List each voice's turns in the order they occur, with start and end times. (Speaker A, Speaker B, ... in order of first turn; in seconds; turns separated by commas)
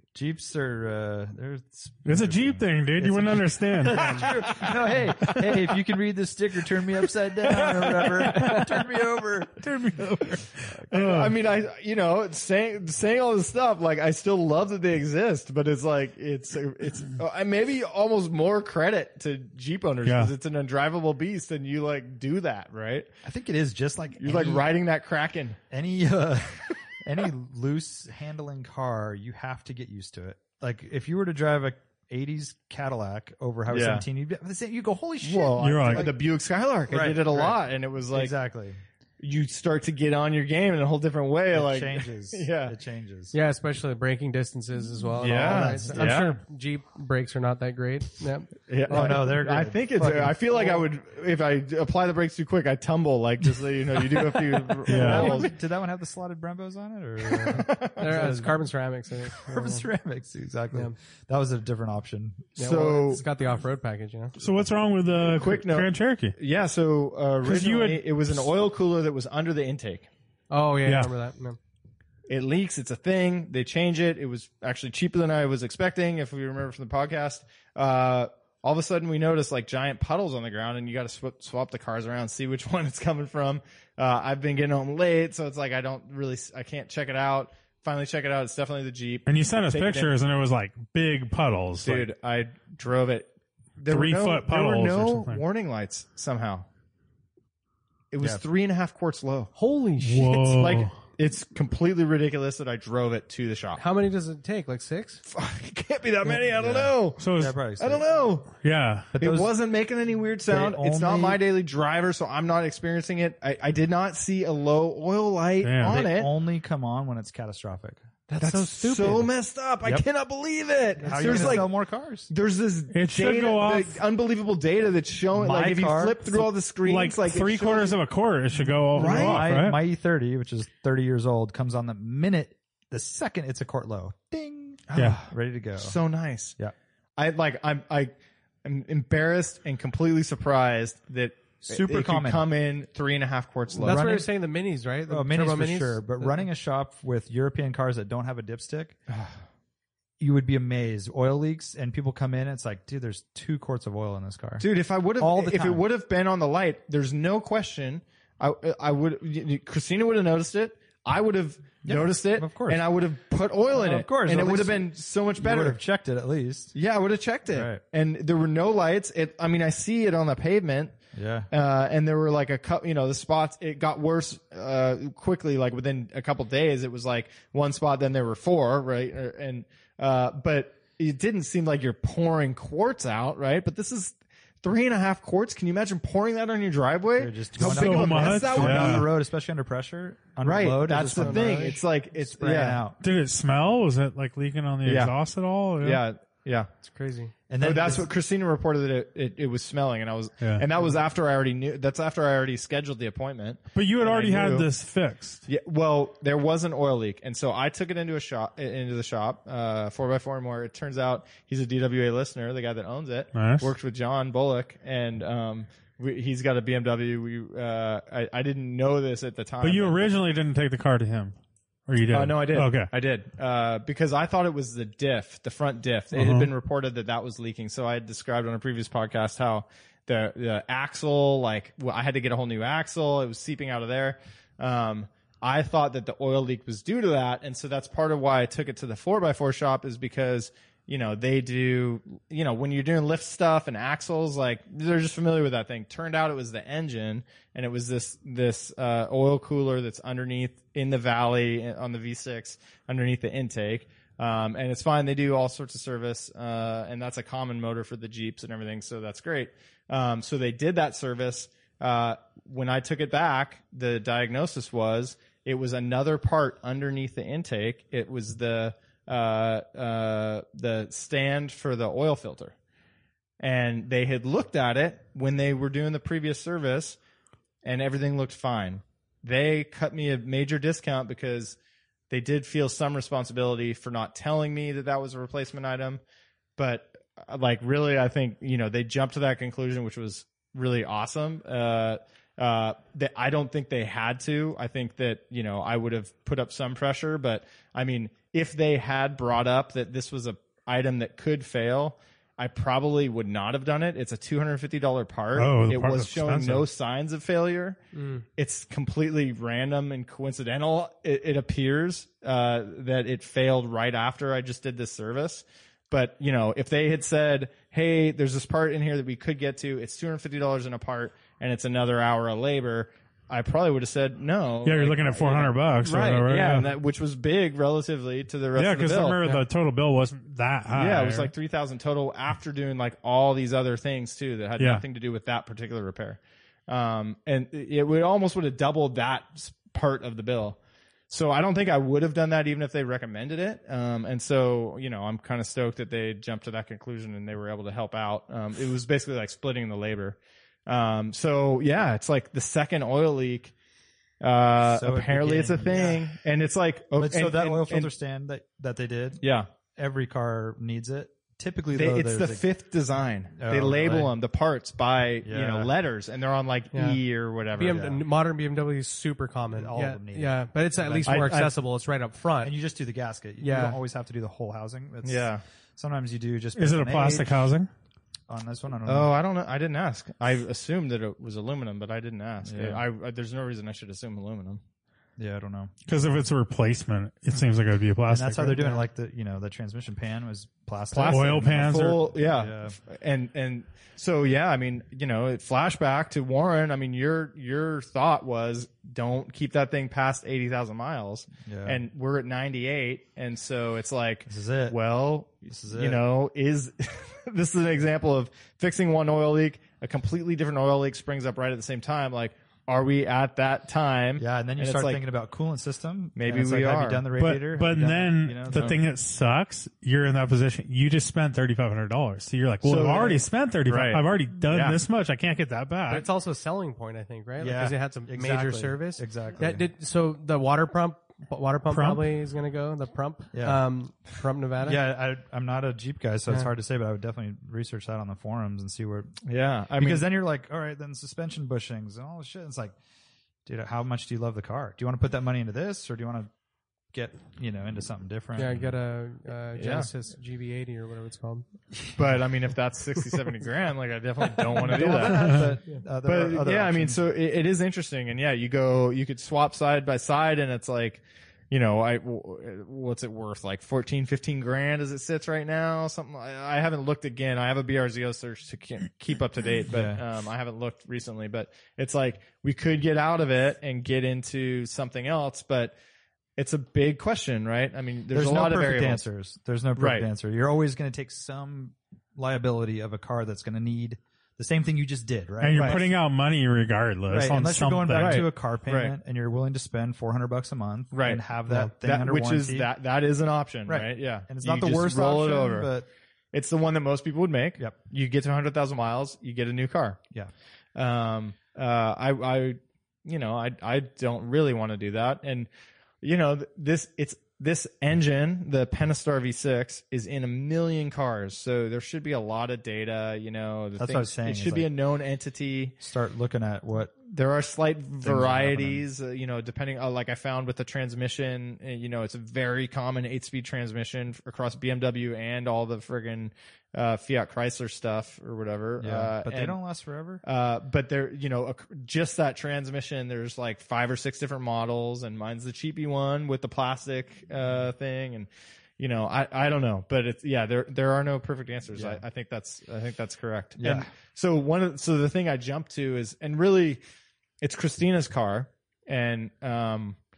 Speaker A: 0.1-10.1, Speaker B: 2.0-4.7, Speaker C: 3.9-4.3, Speaker B: 5.2-5.6, Speaker C: 8.3-8.7, Speaker B: 9.6-11.3, Speaker D: 10.9-23.1, Speaker B: 20.0-20.3, Speaker A: 23.2-24.7, Speaker D: 24.2-25.6, Speaker A: 25.7-36.2, Speaker D: 33.7-34.0, Speaker D: 35.2-38.3, Speaker B: 35.6-36.1, Speaker A: 36.9-38.8, Speaker D: 39.2-42.7, Speaker A: 41.5-43.3, Speaker C: 43.3-49.4, Speaker A: 45.1-46.3, Speaker D: 45.2-46.4, Speaker D: 48.7-55.5, Speaker A: 48.9-50.8, Speaker A: 54.8-58.5, Speaker B: 54.8-55.5, Speaker D: 57.3-58.3, Speaker C: 58.0-59.9, Speaker A: 59.3-62.6, Speaker C: 62.6-64.3, Speaker D: 62.6-63.2, Speaker B: 64.4-66.3, Speaker D: 65.2-70.1, Speaker B: 67.4-68.0, Speaker C: 70.5-71.6, Speaker D: 72.3-90.1, Speaker B: 89.3-92.1, Speaker D: 91.8-96.7, Speaker B: 93.9-95.4, Speaker D: 98.1-99.5, Speaker C: 99.5-100.4, Speaker B: 100.0-101.0, Speaker D: 100.3-103.8, Speaker C: 103.8-105.2, Speaker D: 105.3-107.2, Speaker A: 106.2-108.0, Speaker B: 107.2-107.6, Speaker D: 107.8-108.5, Speaker B: 108.6-109.1, Speaker A: 109.1-109.5, Speaker D: 109.2-116.3, Speaker A: 110.5-111.4, Speaker B: 115.6-116.0, Speaker A: 115.8-118.0, Speaker C: 118.3-119.3, Speaker D: 118.4-121.7, Speaker C: 121.0-121.6, Speaker A: 121.1-122.3, Speaker D: 122.3-128.0, Speaker B: 122.9-124.0, Speaker A: 125.3-126.5, Speaker B: 126.8-129.8, Speaker A: 128.6-136.0, Speaker D: 128.9-129.6, Speaker D: 134.9-136.6, Speaker D: 137.2-144.2, Speaker A: 141.6-142.5, Speaker C: 143.7-146.5, Speaker A: 143.8-144.2, Speaker A: 145.1-149.0, Speaker D: 149.1-149.4, Speaker A: 150.2-155.8, Speaker D: 154.6-165.8, Speaker A: 161.8-162.8, Speaker A: 163.7-166.7, Speaker D: 166.7-170.9, Speaker A: 167.5-167.8, Speaker A: 171.1-171.5, Speaker D: 171.5-189.1, Speaker A: 187.2-193.0, Speaker B: 187.6-189.1, Speaker D: 190.4-192.8, Speaker C: 191.0-191.8, Speaker B: 193.0-196.0, Speaker D: 194.8-195.1, Speaker D: 195.8-196.7, Speaker C: 196.8-197.3, Speaker A: 197.5-198.1, Speaker D: 197.6-204.7, Speaker B: 203.7-205.4, Speaker D: 205.5-220.1, Speaker B: 213.3-213.7, Speaker B: 219.6-221.3, Speaker B: 221.9-222.9, Speaker D: 222.1-272.5, Speaker B: 226.1-226.5, Speaker D: 273.4-277.0, Speaker D: 277.6-281.6, Speaker D: 282.1-286.0, Speaker D: 286.6-307.8, Speaker B: 305.3-306.6, Speaker C: 307.9-308.2, Speaker D: 308.3-329.4, Speaker B: 324.6-326.7, Speaker B: 328.6-331.3, Speaker D: 330.7-340.6, Speaker B: 334.6-334.8, Speaker D: 341.1-353.5, Speaker D: 354.2-357.9, Speaker A: 354.6-356.1, Speaker A: 356.9-359.2, Speaker D: 359.2-359.5, Speaker A: 359.8-362.5, Speaker D: 361.7-367.9, Speaker A: 363.4-364.1, Speaker A: 365.2-365.7, Speaker C: 366.7-367.0, Speaker C: 367.5-372.5, Speaker A: 367.6-368.0, Speaker A: 369.5-371.5, Speaker D: 371.1-371.5, Speaker A: 372.4-377.5, Speaker C: 373.4-373.8, Speaker D: 375.0-375.4, Speaker B: 376.6-377.7, Speaker A: 378.3-379.1, Speaker D: 378.9-384.6, Speaker A: 382.4-382.8, Speaker A: 385.2-385.7, Speaker B: 385.9-388.8, Speaker A: 388.1-392.8, Speaker D: 390.9-415.0, Speaker B: 391.1-392.1, Speaker A: 401.4-401.8, Speaker A: 404.3-404.8, Speaker A: 405.5-406.0, Speaker A: 414.2-418.8, Speaker D: 416.1-417.1, Speaker B: 417.1-426.1, Speaker D: 418.5-418.8, Speaker D: 422.6-424.8, Speaker C: 425.9-434.8, Speaker A: 427.4-429.7, Speaker B: 431.7-432.1, Speaker A: 433.3-433.6, Speaker A: 434.6-439.1, Speaker D: 439.2-440.0, Speaker A: 439.8-442.8, Speaker A: 443.4-446.3, Speaker A: 446.9-448.7, Speaker C: 448.4-451.4, Speaker D: 449.6-449.9, Speaker D: 451.9-455.4, Speaker A: 454.6-457.0, Speaker D: 456.0-475.7, Speaker A: 469.7-470.0, Speaker D: 476.4-479.0, Speaker A: 478.1-485.9, Speaker D: 479.8-480.1, Speaker B: 485.4-488.3, Speaker D: 485.5-485.8, Speaker A: 487.1-492.7, Speaker D: 487.9-488.9, Speaker D: 490.9-495.7, Speaker A: 493.6-495.9, Speaker D: 496.3-500.0, Speaker D: 500.7-505.5, Speaker D: 506.0-515.8, Speaker A: 513.8-514.7, Speaker A: 515.8-516.9, Speaker D: 517.0-529.6, Speaker A: 518.0-518.8, Speaker A: 528.8-530.2, Speaker D: 530.2-546.8, Speaker A: 541.7-542.0, Speaker A: 543.6-543.9, Speaker D: 547.4-550.0